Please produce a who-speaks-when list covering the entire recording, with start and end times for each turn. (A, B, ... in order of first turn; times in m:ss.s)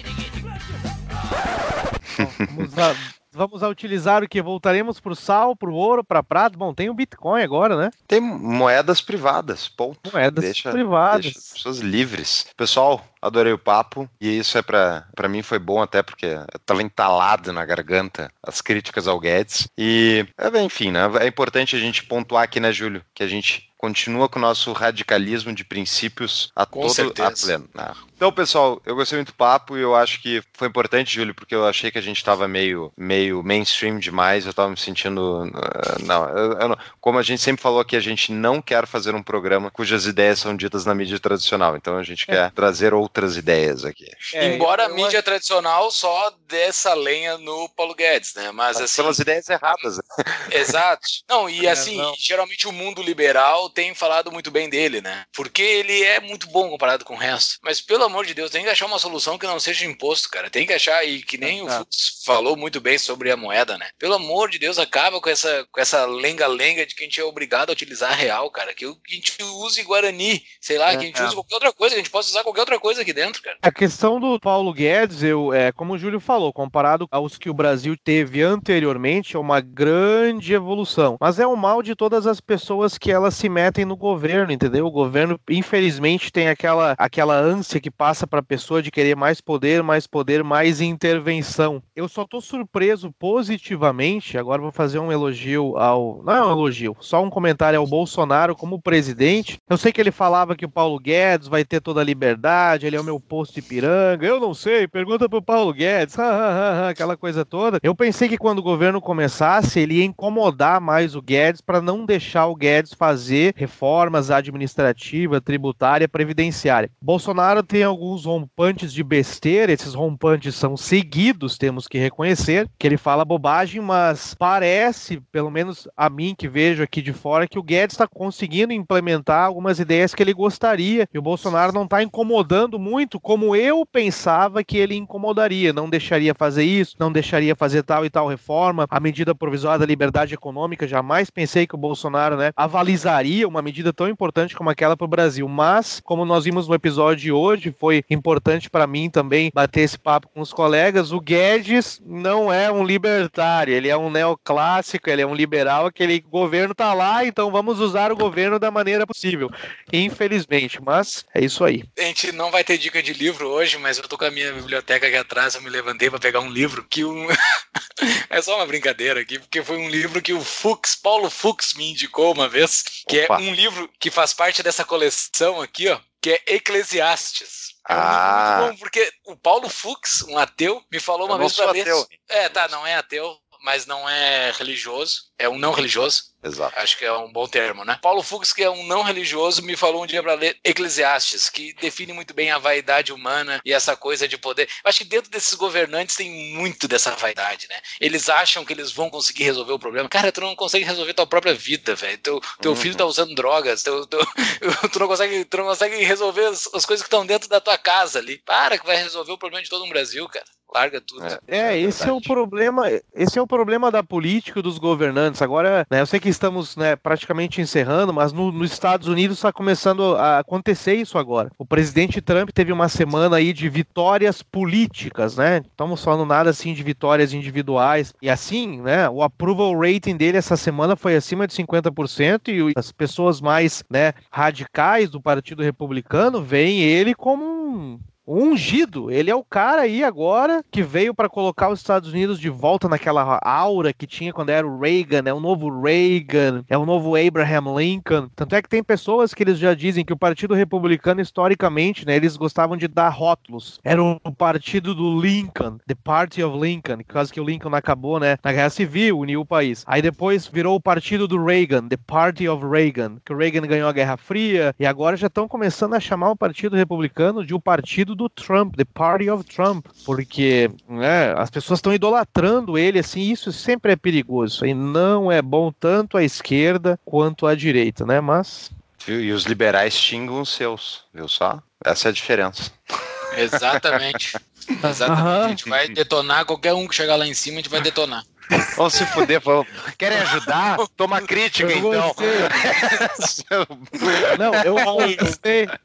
0:02.2-0:07.9 A
0:02.2-0:02.7 B
0:08.1-0:44.5 B
0:10.1-0:11.5 A
0:26.7-0:27.5 C
0:44.3-0:45.2 A
0:44.4-0:49.2 C
0:48.7-0:50.7 B
0:50.5-1:13.6 C
0:51.6-0:52.1 A
1:01.4-1:01.8 A
1:10.9-1:11.4 A
1:13.6-2:41.8 A
2:42.0-2:47.4 C
2:48.0-3:31.4 C
2:53.1-2:53.4 B
2:57.9-2:58.7 B
3:01.3-3:02.7 B
3:06.4-3:06.7 B
3:22.6-3:23.1 B
3:31.2-3:32.2 B
3:31.5-4:38.7 A
4:39.0-4:42.8 B
4:43.3-4:48.3 C
4:43.5-4:44.4 B
4:44.8-4:45.6 A
4:45.5-4:45.9 B
4:48.7-4:55.4 B
4:50.8-4:51.3 C
4:51.6-4:52.5 A
4:54.3-4:55.7 A
4:54.8-4:55.4 C